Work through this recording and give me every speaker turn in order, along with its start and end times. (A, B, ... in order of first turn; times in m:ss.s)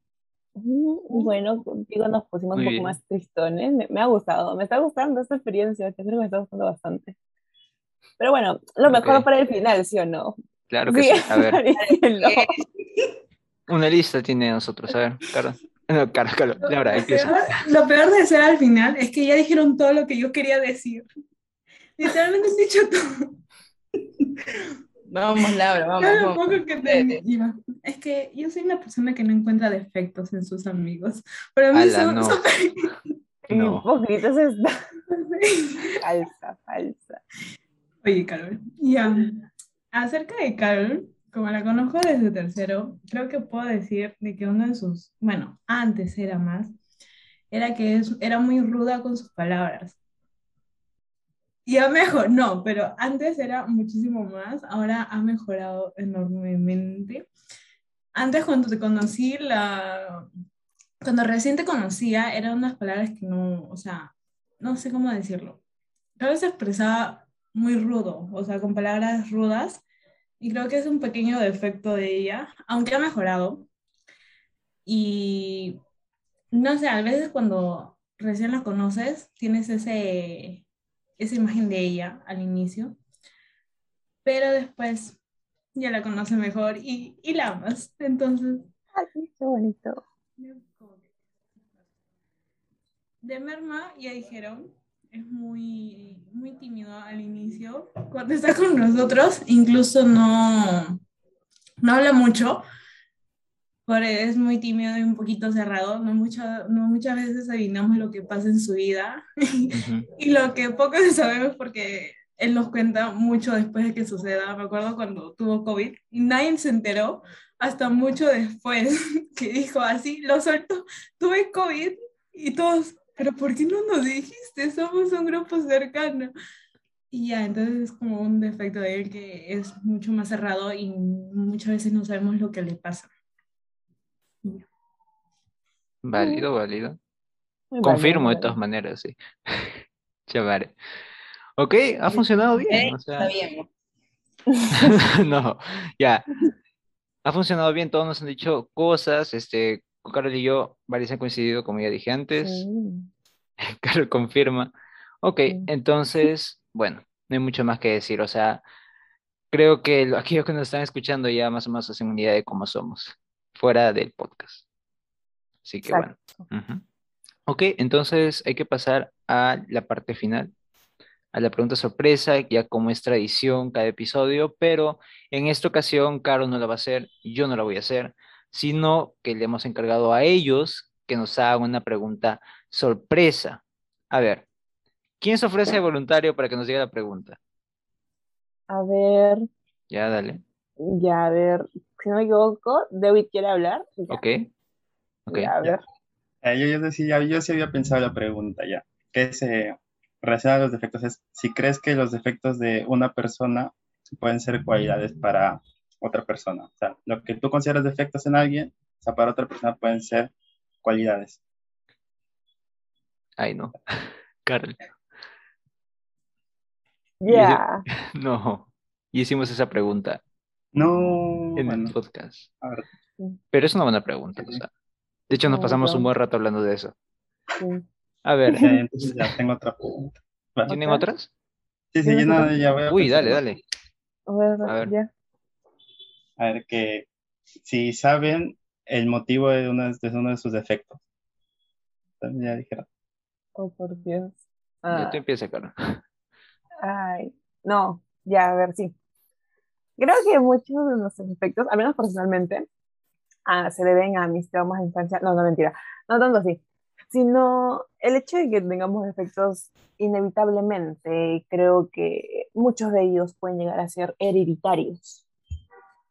0:00.6-0:07.2 A
0:02.5-0:03.0 B
0:08.2-0:10.4 A
0:08.9-0:09.3 B
0:10.7-0:11.6 B
0:10.9-0:12.5 A
0:11.8-0:13.1 C
0:13.7-0:17.6 B
0:16.7-0:21.1 D
0:22.0-0:23.4 D
0:25.1-0:27.2 C
0:26.0-0:32.9 D
0:31.7-0:32.4 B
0:33.5-0:34.8 A
0:33.5-0:33.9 B
0:35.1-0:36.0 D
0:36.0-0:37.2 A
0:38.0-0:46.8 D
0:47.5-0:50.0 D
0:51.7-0:57.3 D
0:58.1-1:00.3 D
1:01.0-1:05.6 D
1:06.2-1:09.8 D
1:10.4-1:13.7 D
1:14.8-1:15.8 D
1:16.5-1:20.6 D
1:21.2-1:23.0 D
1:24.2-1:25.2 D
1:25.8-1:28.7 D
1:28.9-1:30.0 A
1:30.4-1:31.1 D
1:33.2-1:41.0 D
1:41.8-1:42.6 D
1:43.9-2:06.3 D
1:49.7-1:50.1 B
2:07.1-2:13.1 D
2:16.0-2:17.0 B
2:16.2-2:16.4 A
2:17.7-2:18.6 A
2:17.8-2:20.7 B
2:21.6-2:23.3 B
2:22.7-2:23.7 C
2:24.5-2:24.9 A
2:24.7-2:26.3 B
2:27.2-2:32.6 B
2:32.4-2:33.1 A
2:33.6-2:38.6 B
2:39.5-2:44.6 B
2:45.6-2:46.8 B
2:45.8-2:46.4 A
2:47.5-2:50.5 B
2:51.3-3:04.5 B
3:05.2-3:07.4 B
3:08.7-3:09.5 A
3:09.9-3:10.4 B
3:10.8-3:14.2 A
3:14.1-3:14.5 B
3:15.3-3:15.5 B
3:15.3-3:15.8 A
3:16.4-3:30.3 E
3:30.8-3:31.4 E
3:33.4-3:34.8 B
3:37.2-3:37.8 A
3:37.3-3:37.6 B
3:38.2-3:40.2 B
3:40.8-3:42.0 E
3:41.6-3:42.5 B
3:43.5-3:44.7 B
3:45.3-3:46.9 B
3:45.5-3:46.1 A
3:47.6-3:47.8 A
3:48.2-3:48.7 B
3:48.5-3:50.7 E
3:50.7-3:51.3 B
3:50.7-3:51.0 A
3:51.9-3:53.4 E
3:52.0-3:52.5 A
3:52.9-3:53.6 B
3:54.3-3:55.1 A
3:54.6-3:54.9 B
3:56.4-3:57.1 E
3:57.6-4:01.0 E
4:02.2-4:02.9 E
4:03.6-4:05.2 A
4:04.9-4:06.0 B
4:06.8-4:09.0 A
4:10.0-4:12.7 A
4:13.5-4:25.2 A